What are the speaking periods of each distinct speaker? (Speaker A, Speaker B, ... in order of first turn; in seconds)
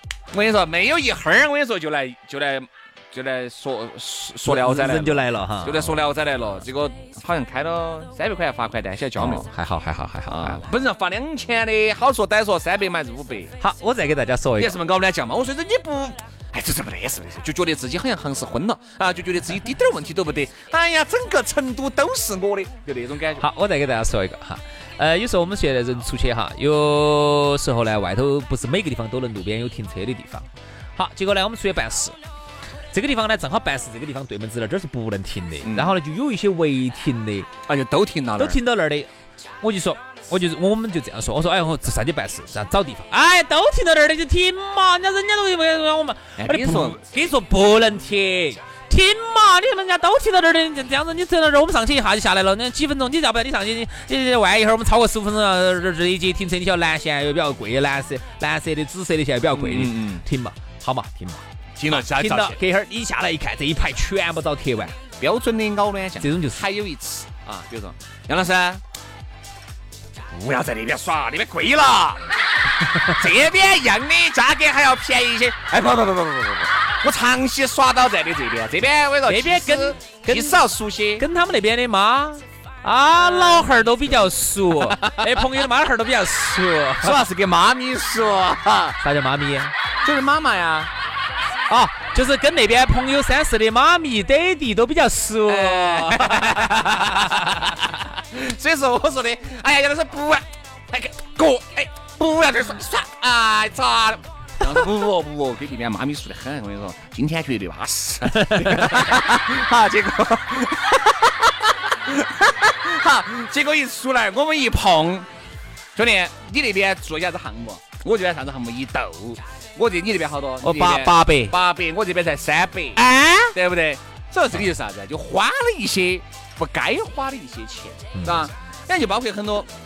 Speaker A: 0.3-9.5, 10.3-13.5, 14.6-23.4, 35.6-36.0, 37.7-38.6, 46.4-47.0, 59.5-60.2, 61.8-62.6, 65.2-68.8, 70.3-72.2, 73.1-81.2, 83.2-83.7, 84.7-85.5, 87.0-89.0, 90.0-90.9, 95.5-115.3, 116.0-129.7
Speaker B: 4.5-6.0, 9.2-10.7, 13.6-14.8, 23.4-32.2, 32.9-37.5, 38.4-39.1, 39.6-65.0, 66.2-66.6, 79.3-80.6, 81.2-87.2, 89.0-89.7, 91.7-96.9, 120.6-121.5, 123.0-123.5, 128.1-128.5